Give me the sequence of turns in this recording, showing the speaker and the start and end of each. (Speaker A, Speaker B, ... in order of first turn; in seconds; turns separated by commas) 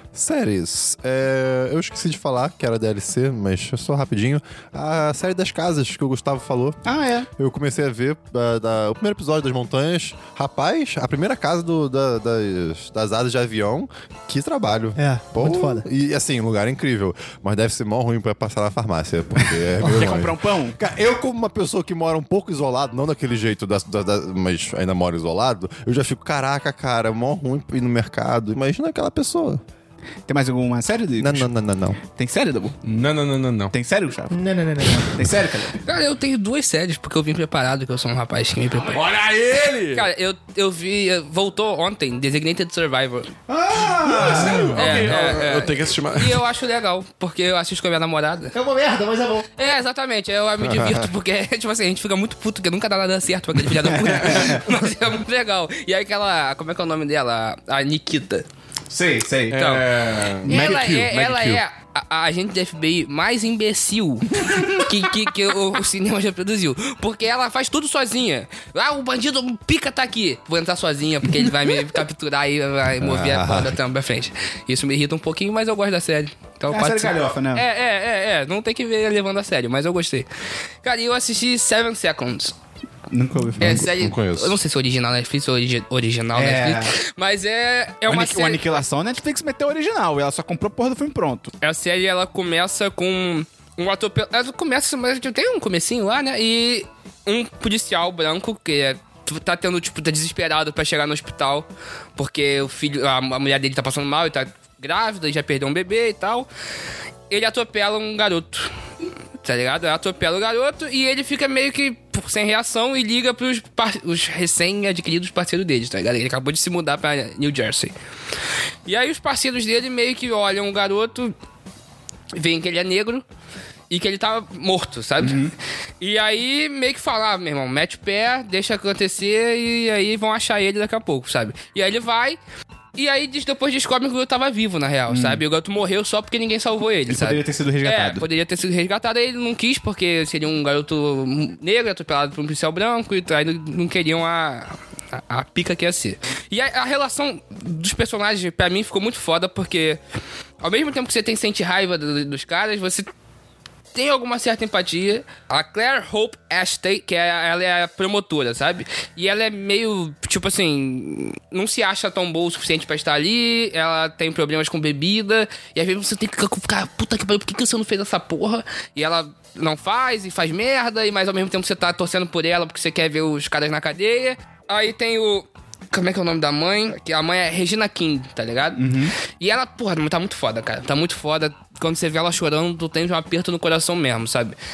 Speaker A: 0.1-6.8, Speaker B: 6.8-7.3, Speaker A: 7.3-29.6, Speaker C: 14.9-15.8, Speaker B: 19.4-20.8, Speaker B: 30.3-31.5, Speaker A: 31.2-32.0, Speaker B: 32.1-32.8, Speaker D: 32.8-33.7, Speaker B: 33.7-34.4, Speaker C: 34.3-35.2, Speaker B: 35.0-35.8, Speaker E: 35.8-39.0, Speaker D: 38.9-40.1, Speaker E: 39.9-43.3, Speaker B: 43.5-45.1, Speaker D: 44.1-46.4, Speaker A: 44.2-44.5, Speaker E: 44.7-48.5, Speaker C: 48.5-49.5, Speaker E: 49.6-58.5, Speaker A: 50.6-51.1, Speaker B: 53.8-54.6, Speaker B: 58.9-59.6, Speaker D: 59.5-61.6, Speaker E: 59.5-59.9, Speaker E: 60.4-80.3, Speaker A: 60.5-60.8, Speaker B: 64.4-64.9, Speaker A: 73.0-73.8, Speaker B: 76.7-77.6, Speaker E: 80.8-82.5, Speaker B: 83.1-83.9, Speaker A: 83.6-84.6, Speaker E: 83.6-88.6, Speaker B: 86.3-86.9, Speaker B: 88.1-91.5, Speaker E: 91.6-106.5, Speaker E: 107.3-108.7, Speaker E: 109.4-117.9, Speaker E: 118.8-121.3, Speaker E: 122.3-123.2, Speaker E: 123.9-125.4, Speaker B: 125.2-125.5, Speaker E: 126.0-132.4, Speaker E: 132.9-150.0, Speaker B: 135.1-135.4, Speaker B: 137.1-138.3, Speaker E: 150.6-153.1, Speaker E: 153.9-184.6, Speaker B: 178.8-179.1